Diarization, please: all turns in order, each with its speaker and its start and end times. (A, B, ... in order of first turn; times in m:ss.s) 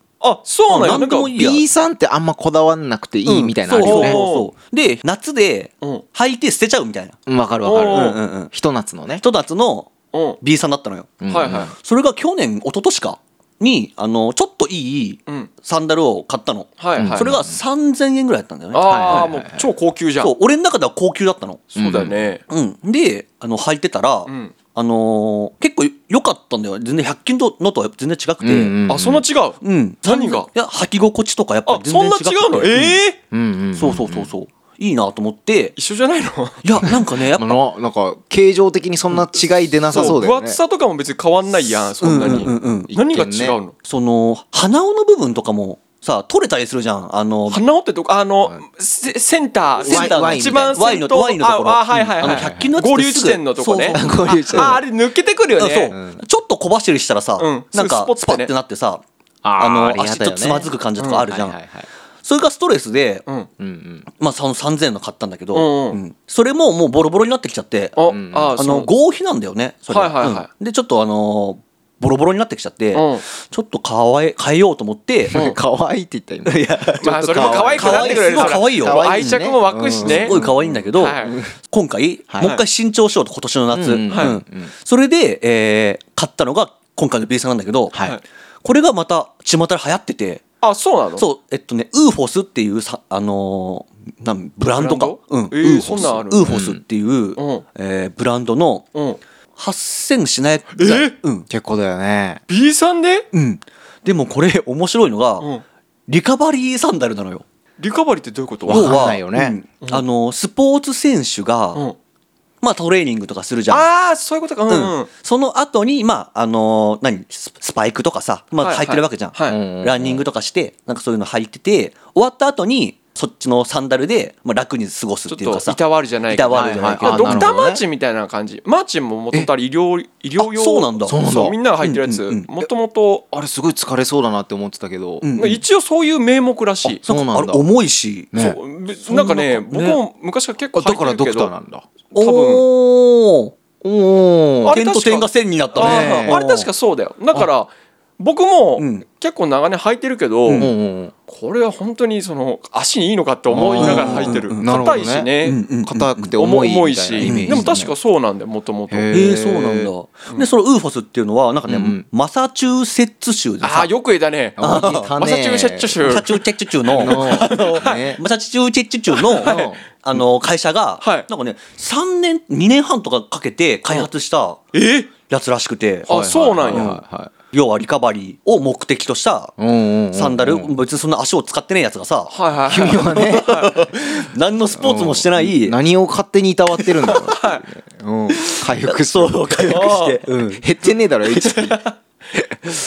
0:00.2-0:01.3 A
0:00.7-0:01.6 B
0:01.3-0:04.2 C
0:03.2-0:07.2 B
0:03.8-0:04.5 A
0:07.3-0:09.2 C
0:07.6-0:08.2 A
0:07.8-0:08.5 B
0:09.2-0:19.3 B
0:10.1-0:10.4 A
0:11.2-0:11.7 C
0:11.3-0:11.7 A
0:16.8-0:17.3 A
0:17.0-0:17.6 C
0:18.7-0:20.3 A
0:18.8-0:19.6 C
0:20.2-0:21.7 B
0:21.7-0:22.4 A
0:21.8-0:22.1 C
0:22.5-0:28.8 B
0:24.2-0:24.5 A
0:28.4-0:29.2 C
0:28.9-0:30.5 A
0:29.6-0:33.0 B
0:31.6-0:33.2 A
0:33.3-0:34.3 C
0:33.7-0:35.8 B
0:35.8-0:36.6 A
0:36.6-0:37.6 B
0:37.3-0:40.6 C
0:39.9-0:43.7 A
0:42.0-0:42.9 B
0:42.5-0:43.6 C
0:43.8-0:47.6 B
0:47.5-0:55.9 A
0:49.8-0:51.0 C
0:49.8-0:54.8 B
0:52.2-0:52.7 C
0:53.9-0:54.8 C
0:55.6-0:59.0 B
0:55.9-0:56.2 C
0:57.4-0:58.5 A
0:59.4-1:00.7 C
0:59.6-1:01.6 B
1:01.0-1:01.2 A
1:01.2-1:01.9 C
1:02.2-1:03.2 B
1:03.6-1:04.1 C
1:04.2-1:15.4 B
1:05.5-1:06.0 A
1:08.0-1:08.9 A
1:08.1-1:08.6 C
1:09.9-1:10.5 A
1:12.9-1:13.2 A
1:15.3-1:21.5 C
1:16.4-1:19.4 B
1:17.0-1:20.4 A
1:20.0-1:28.0 B
1:20.9-1:21.4 A
1:22.3-1:22.5 C
1:23.7-1:24.7 C
1:24.1-1:24.4 A
1:27.9-1:28.2 C
1:28.6-1:30.4 B
1:30.6-1:31.2 A
1:31.2-1:38.9 B
1:34.7-1:36.5 A
1:36.4-1:36.8 C
1:37.4-1:37.6 A
1:39.6-1:41.5 B
1:40.8-1:41.1 A
1:41.5-1:42.4 C
1:42.5-1:43.2 A
1:43.3-1:45.5 B
1:46.1-1:47.4 B
1:47.8-1:49.0 A
1:48.7-1:49.6 C
1:48.7-1:51.8 B
1:52.6-1:53.9 B
1:53.7-1:55.1 A
1:54.7-2:07.5 B
1:58.6-1:59.6 A
1:59.5-2:00.2 C
2:05.3-2:13.2 A
2:06.5-2:07.8 C
2:10.4-2:11.2 B
2:11.0-2:11.6 C
2:11.8-2:12.5 B
2:13.3-2:15.3 C
2:15.2-2:15.6 B
2:15.4-2:17.0 A
2:16.8-2:17.6 C
2:17.0-2:18.4 B
2:18.3-2:18.6 C
2:18.4-2:21.5 A
2:19.1-2:20.0 B
2:20.7-2:21.8 C
2:22.1-2:22.6 A
2:22.1-2:23.5 B
2:23.8-2:24.8 C
2:24.6-2:30.7 A
2:24.7-2:26.6 B
2:25.8-2:26.6 C
2:28.8-2:29.0 B
2:30.6-2:31.1 C
2:31.3-2:35.6 A
2:33.5-2:37.9 C
2:33.6-2:34.8 B
2:35.4-2:36.3 B
2:36.4-2:39.1 A
2:37.2-2:37.6 B
2:38.9-2:39.9 C
2:39.1-2:43.9 B
2:41.7-2:42.0 C
2:43.6-2:48.1 A
2:44.6-2:46.0 C
2:44.6-2:45.1 B
2:46.0-2:54.6 B
2:46.9-2:48.2 C
2:49.3-2:49.7 A
2:49.4-2:49.8 C
2:51.0-2:51.2 A
2:54.7-2:55.1 A
2:55.1-2:56.1 B
2:56.1-2:56.9 A
2:56.1-2:57.3 C
2:56.7-2:59.5 B
2:59.6-3:00.7 C
3:00.1-3:02.3 B
3:02.3-3:03.8 A
3:02.7-3:11.8 C
3:03.1-3:05.8 B
3:06.8-3:07.4 B
3:07.1-3:07.6 A
3:08.3-3:10.6 B
3:09.7-3:10.2 A
3:11.4-3:11.8 B